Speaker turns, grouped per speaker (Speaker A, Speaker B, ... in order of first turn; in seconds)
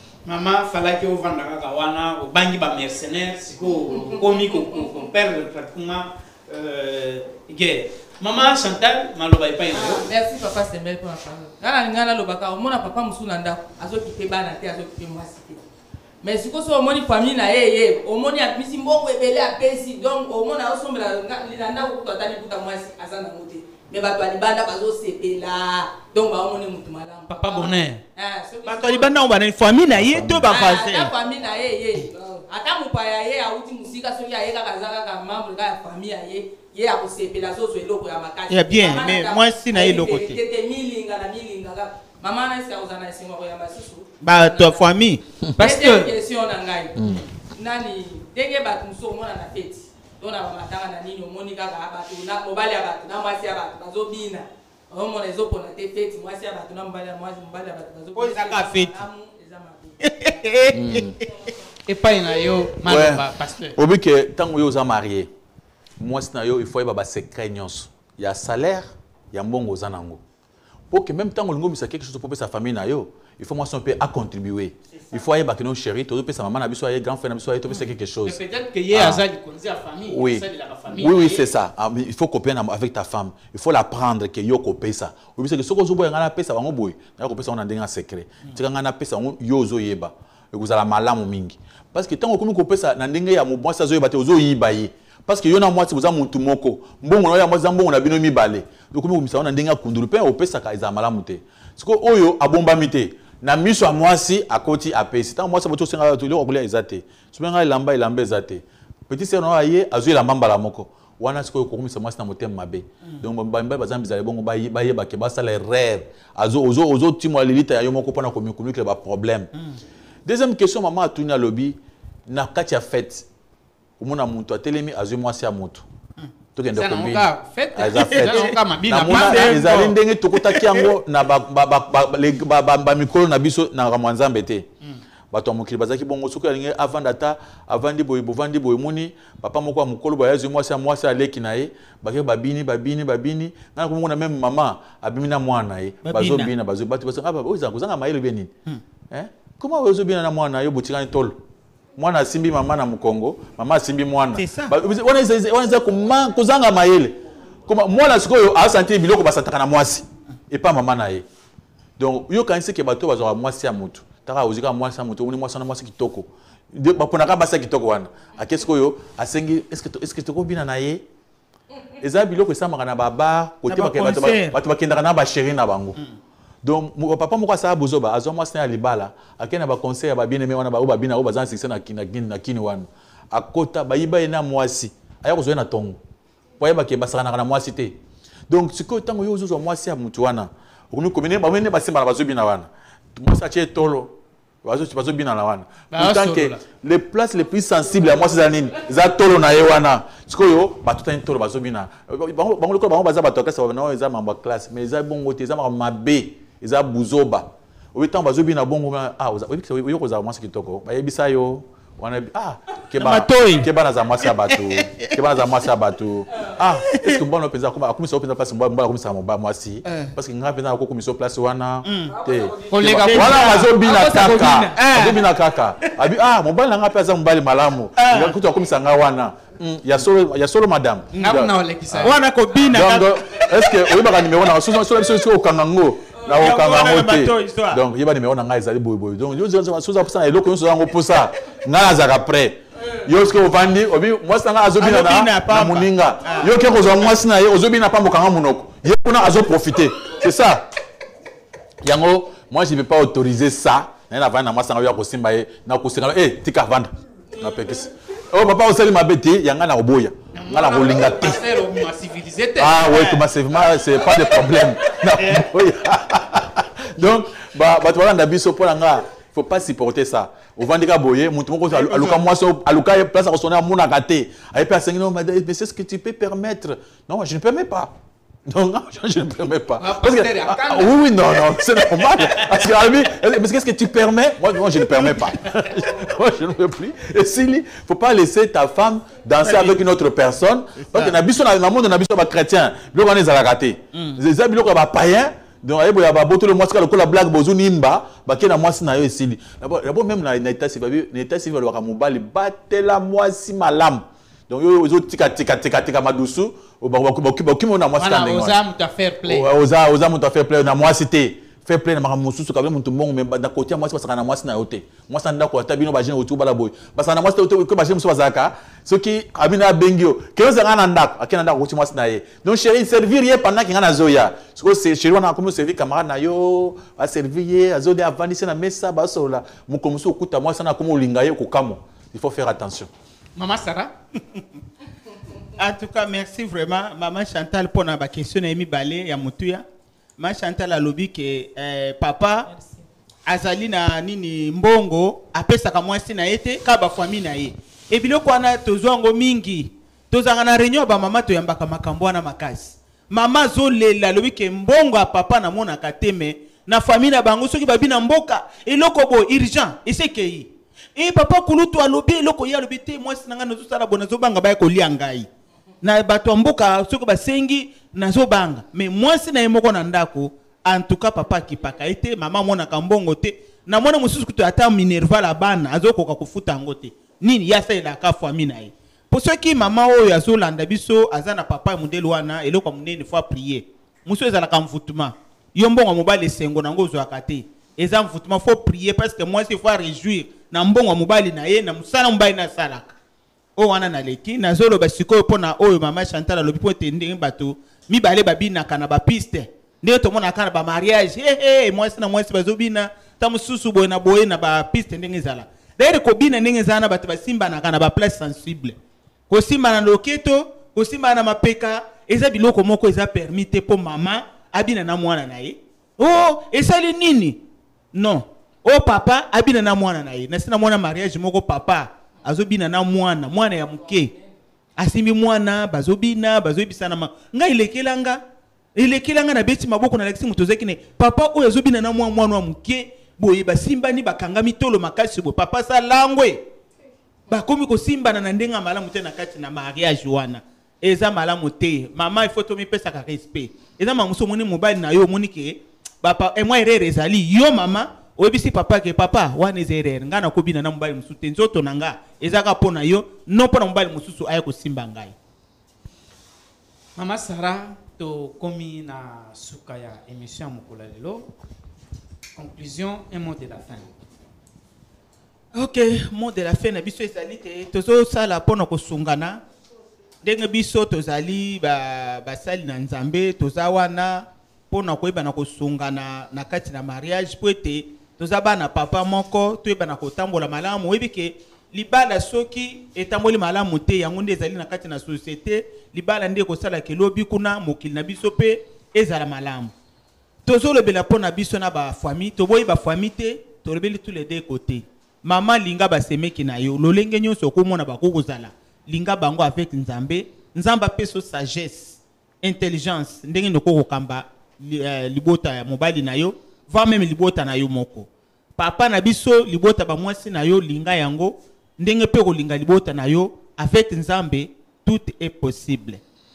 Speaker A: 0.3-10.1, 27.3-28.0, 45.6-46.1, 61.9-63.8, 78.3-81.5, 126.7-129.8, 195.9-196.6, 222.7-224.1, 231.2-232.2, 260.4-262.9, 279.8-281.0, 308.0-309.5, 333.4-333.9, 457.0-461.3, 462.4-463.9
Speaker B: 9.7-15.6, 16.2-29.2, 30.5-44.9, 45.6-60.5, 222.2-222.8
Speaker C: 28.6-31.1, 38.5-40.4, 44.2-45.2, 58.2-59.0, 60.0-61.2, 119.5-119.8, 128.1-128.4, 129.1-130.8, 146.1-146.5, 154.3-154.7, 173.7-174.6, 213.0-213.7, 214.3-215.1, 216.9-217.2, 219.9-220.1, 221.8-222.2, 222.8-225.2, 228.0-228.4, 232.0-234.1, 236.2-237.8, 244.8-246.5, 262.9-263.2, 264.9-265.4, 271.8-272.2, 289.4-289.7, 293.9-294.2, 335.6-339.7, 340.2-342.5, 343.3-365.3, 365.8-393.0, 393.6-408.8, 409.3-424.1, 424.8-428.2, 428.8-436.4, 437.3-455.1, 465.5-469.4, 470.2-489.7, 490.4-516.0
Speaker D: 29.9-30.5, 47.0-47.2, 60.7-61.2, 62.9-65.3, 66.0-70.2, 70.9-78.4, 78.9-79.2, 80.1-119.5, 120.3-123.3, 124.0-125.8, 126.5-134.7, 135.3-148.5, 149.1-151.4, 152.0-161.2, 162.0-171.1, 172.0-176.0, 176.6-186.0, 186.6-188.0, 188.5-232.1, 232.7-250.7, 251.8-261.4, 262.6-277.9, 278.5-308.6, 309.2-332.9